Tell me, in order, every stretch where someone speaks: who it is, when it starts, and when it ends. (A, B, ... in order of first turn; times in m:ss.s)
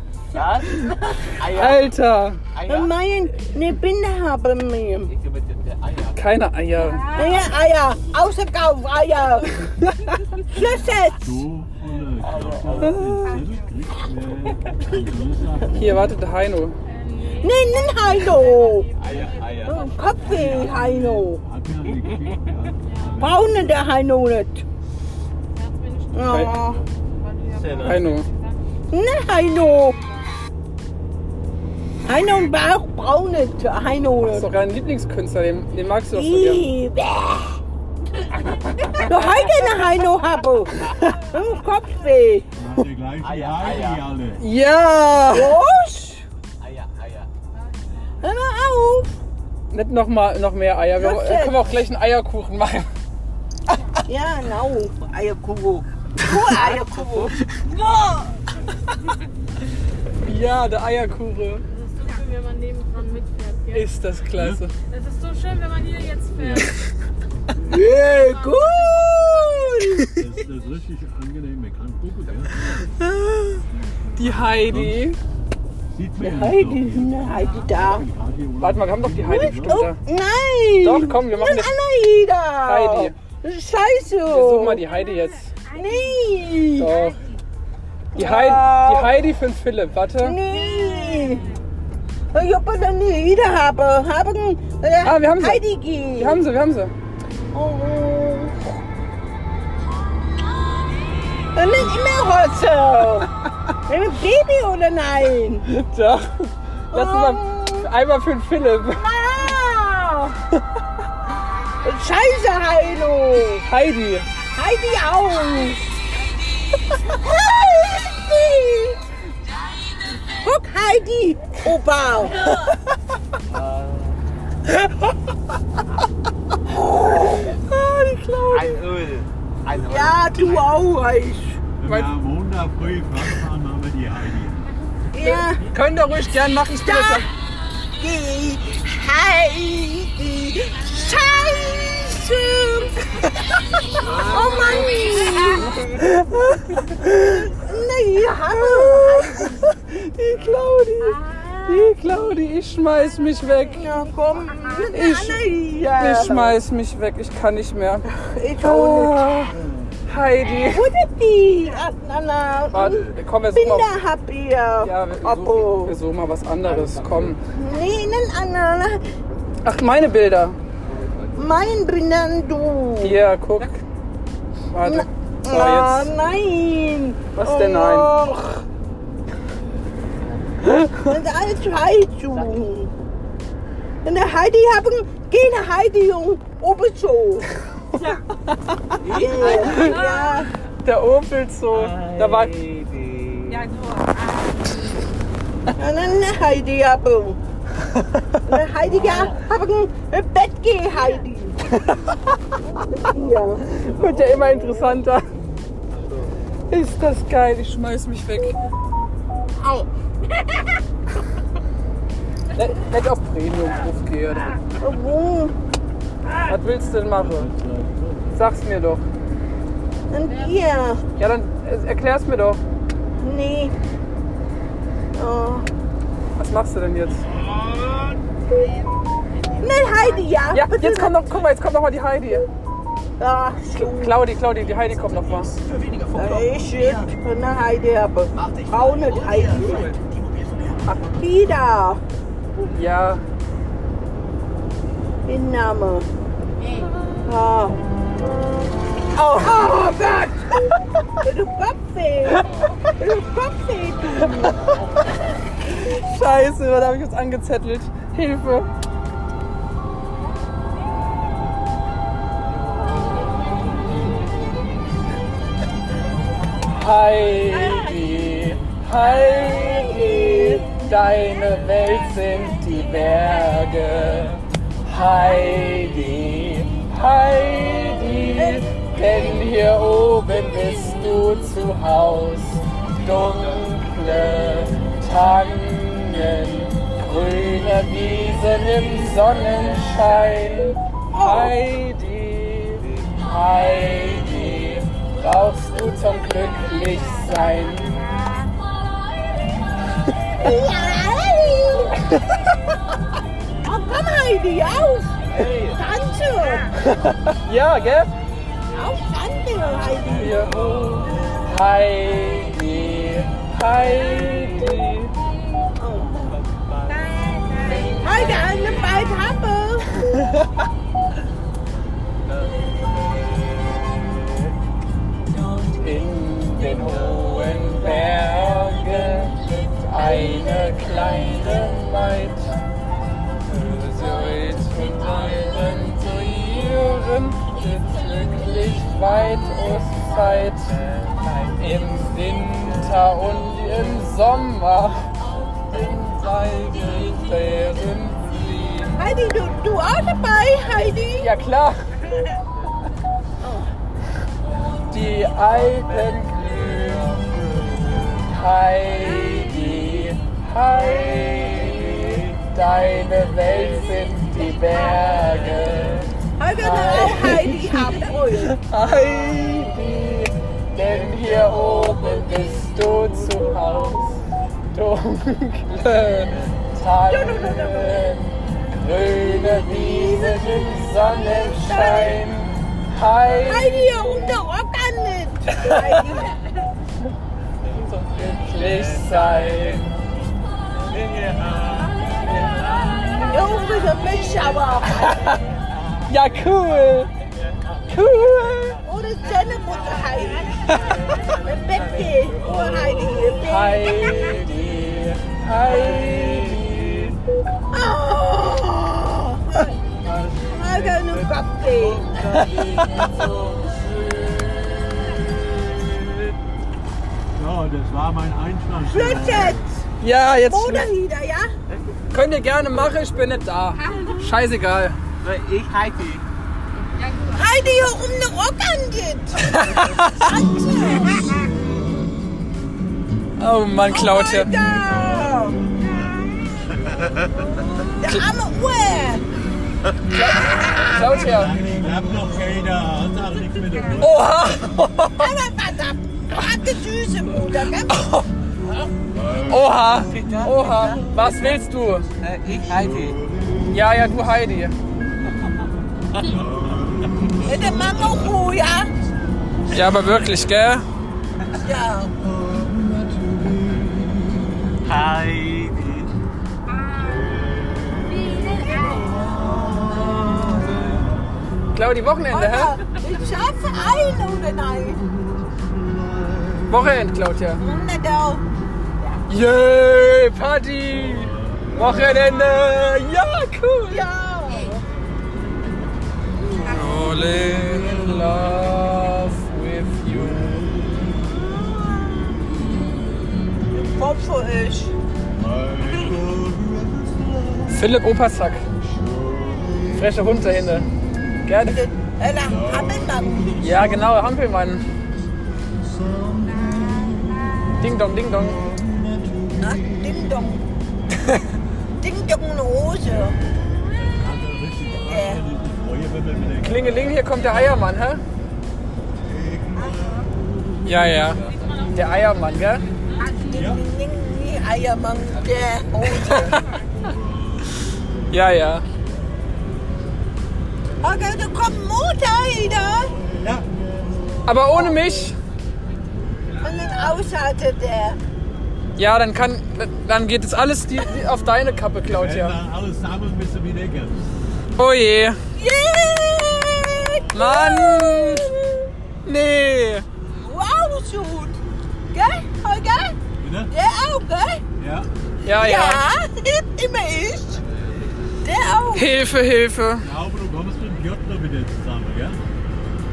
0:00.3-0:02.0 A
0:01.5-0:02.4 B
0:02.5-0:02.9 A
0:02.6-0:05.1 C
0:05.1-0:06.2 A
0:06.1-0:07.3 B
0:07.1-0:09.6 C
0:10.5-0:11.4 C
0:11.2-0:16.0 D
0:12.2-0:13.1 A
0:15.7-0:16.8 B
0:17.0-0:17.4 E
0:17.4-0:18.9 C
0:19.0-0:20.3 A
0:19.6-0:21.4 C
0:20.2-0:23.9 D
0:23.2-0:24.6 C
0:26.1-0:26.8 C
0:26.2-0:26.6 B
0:27.3-0:28.0 E
0:27.6-0:28.2 A
0:27.8-0:28.3 B
0:28.9-0:30.0 C
0:32.0-0:34.5 C
0:34.3-0:36.7 B
0:36.1-0:37.6 C
0:39.0-0:42.5 C
0:42.6-0:44.4 D
0:43.2-0:44.0 A
0:44.4-0:45.6 B
0:45.3-0:46.2 C
0:46.6-0:47.3 A
0:48.2-0:49.1 C
0:49.7-0:52.9 B
0:51.0-0:51.8 C
0:54.0-0:58.1 C
1:00.2-1:01.6 B
1:01.8-1:03.7 E
1:03.7-1:04.7 B
1:04.4-1:04.6 D
1:04.9-1:06.3 E
1:06.3-1:06.7 D
1:07.6-1:10.1 C
1:10.1-1:12.9 D
1:14.2-1:15.2 B
1:14.6-1:15.1 D
1:15.9-1:19.9 D
1:16.2-1:18.1 C
1:18.6-1:20.0 B
1:19.3-1:24.8 C
1:20.8-1:21.8 B
1:22.6-1:23.2 B
1:24.3-1:25.6 B
1:25.7-1:27.0 C
1:26.8-1:27.2 B
1:28.1-1:29.2 C
1:28.2-1:30.4 B
1:30.2-1:31.6 C
1:32.3-1:36.4 C
1:35.0-1:35.6 B
1:36.2-1:36.9 B
1:37.5-1:38.8 C
1:41.5-1:43.3 C
1:43.9-1:45.7 C
1:45.6-1:49.0 B
1:46.9-1:47.9 C
1:48.8-1:50.4 C
1:51.8-1:53.6 C
1:53.5-1:54.3 B
1:54.5-1:55.9 C
1:56.9-1:59.0 C
2:00.3-2:02.5 C
2:03.5-2:04.2 A
2:07.5-2:08.7 B
2:08.5-2:10.8 A
2:09.9-2:11.6 C
2:11.8-2:14.6 D
2:11.8-2:12.1 B
2:15.1-2:15.6 C
2:15.2-2:17.3 B
2:16.8-2:17.3 C
2:18.0-2:23.0 C
2:24.0-2:25.8 C
2:24.0-2:25.4 A
2:27.2-2:29.6 C
2:28.6-2:33.9 B
2:31.0-2:31.9 C
2:33.8-2:36.6 C
2:34.9-2:38.1 B
2:38.2-2:39.3 C
2:38.6-2:40.9 B
2:39.5-2:40.0 D
2:40.5-2:46.0 C
2:42.7-2:43.9 B
2:44.8-2:47.4 B
2:46.7-2:47.3 A
2:47.5-2:49.2 C
2:49.6-2:50.6 B
2:50.9-2:51.5 A
2:51.4-2:53.2 C
2:53.0-2:53.8 B
2:54.7-2:56.1 B
2:54.8-2:58.6 C
2:57.4-2:58.1 B
3:00.6-3:00.9 B
3:01.0-3:02.9 C
3:04.0-3:07.5 C
3:09.0-3:10.0 A
3:09.1-3:10.5 C
3:09.5-3:10.0 B
3:10.8-3:12.5 B
3:11.7-3:14.0 A
3:15.7-3:17.4 C
3:18.5-3:21.6 C
3:21.7-3:22.1 B
3:22.9-3:23.6 C
3:23.7-3:25.2 B
3:26.7-3:28.6 B
3:32.5-3:34.6 B
3:34.8-3:35.6 C
3:36.4-3:37.5 B
3:37.1-3:38.3 D
3:38.3-3:39.0 B
3:40.1-3:41.0 C
3:41.2-3:42.6 B
3:43.2-3:43.7 C
3:45.2-3:45.7 C
3:46.4-3:47.2 B
3:49.6-3:51.1 C
3:50.5-3:52.4 B
3:53.2-3:54.2 C
3:53.7-3:55.5 B
3:56.1-4:00.0 C
4:01.1-4:02.0 C
4:02.6-4:03.2 B
4:05.3-4:06.1 C
4:07.2-4:07.8 C
4:09.2-4:10.4 C
4:09.2-4:09.7 B
4:11.2-4:12.5 C
4:13.0-4:14.6 C
4:15.7-4:18.7 B
4:26.7-4:58.0 B
4:29.4-4:30.6 C
4:38.4-4:38.6 C
4:43.3-4:43.7 A
4:51.1-4:51.6 C
4:52.8-4:53.1 A
5:00.4-5:02.0 C
5:03.6-5:06.7 C
5:05.3-5:05.8 A
5:06.8-5:08.1 B
5:08.7-5:10.5 C
5:10.2-5:15.1 B
5:10.6-5:11.0 A
5:15.8-5:16.4 C
5:16.2-5:18.1 A
5:17.7-5:20.0 C
5:20.0-5:20.5 B
5:22.3-5:24.5 A
5:25.8-5:32.5 B
5:33.5-5:45.1 B
5:45.7-5:49.0 B
5:49.0-5:51.3 C
5:51.2-5:51.8 B
5:53.4-5:53.7 C
5:54.9-5:57.2 B
5:58.1-6:24.3 B
6:06.4-6:08.6 C
6:17.1-6:18.2 C
6:19.1-6:22.2 C
6:23.4-6:26.4 C
6:25.5-6:26.2 B
6:27.7-6:30.0 B
6:28.6-6:29.5 A
6:30.8-6:33.4 A
6:33.3-6:35.1 C
6:35.0-6:35.4 B
6:36.0-6:37.1 B
6:37.9-6:38.8 B
6:38.8-6:44.2 C
6:40.8-6:41.1 B
6:40.8-6:43.0 A
6:43.4-6:47.2 B
6:45.8-6:46.3 A
6:47.7-6:49.7 C
6:50.0-6:56.2 A
6:50.4-6:52.4 C
6:52.6-6:53.0 B
6:57.4-6:59.6 D
6:58.9-6:59.8 C
7:00.0-7:00.9 B
7:00.5-7:01.5 C
7:02.1-7:05.0 B
7:05.2-7:06.2 A
7:07.3-7:11.3 C
7:09.4-7:10.3 B
7:13.4-7:14.5 B
7:13.8-7:15.7 C
7:17.8-7:19.3 C
7:20.1-7:21.6 B
7:20.5-7:21.0 C
7:21.1-7:24.2 D
7:24.0-7:25.3 B
7:25.2-7:28.0 C
7:27.9-7:28.3 B
7:29.5-7:32.1 B
7:30.0-7:31.1 A
7:32.2-7:33.2 A
7:33.7-7:34.8 B
7:37.4-7:38.9 C
7:39.7-7:40.8 B
7:41.6-7:42.1 C
7:44.8-7:46.1 A
7:48.1-7:49.8 C
7:50.3-7:51.0 A
7:51.7-7:52.8 B
7:52.3-7:55.0 C
7:56.7-7:57.6 B
7:57.6-7:58.4 C
7:59.3-8:04.1 B
8:03.9-8:04.8 C
8:06.5-8:10.8 B
8:13.7-8:14.9 C
8:17.7-8:18.6 B
8:20.0-8:20.9 B
8:21.4-8:21.8 B
8:21.6-8:24.0 C
8:23.6-8:24.9 B
8:27.7-8:28.6 B
8:29.6-8:30.6 C
8:32.0-8:33.4 C
8:33.9-8:37.1 D
8:34.9-8:35.4 C
8:36.6-8:38.2 B
8:39.8-8:40.2 C
8:40.8-8:42.9 B
8:41.5-8:41.9 A
8:43.2-8:46.6 C
8:43.6-8:43.8 D
8:46.0-8:46.6 B
8:48.3-8:48.8 B
8:51.0-8:53.2 C
8:53.4-8:53.7 D
8:54.5-8:55.4 B
8:54.7-8:55.2 C
8:56.6-8:58.2 C
8:59.0-9:02.6 B
9:02.0-9:04.3 D
9:04.8-9:05.4 B
9:05.6-9:08.8 C
9:07.3-9:08.5 B
9:09.2-9:10.0 B
9:10.3-9:11.6 C
9:12.1-9:13.2 C
9:13.4-9:13.7 D
9:13.7-9:14.6 C
9:14.8-9:15.1 D
9:15.4-9:16.0 B
9:15.6-9:17.6 C
9:18.4-9:19.1 C
9:18.9-9:20.1 B
9:20.0-9:22.4 D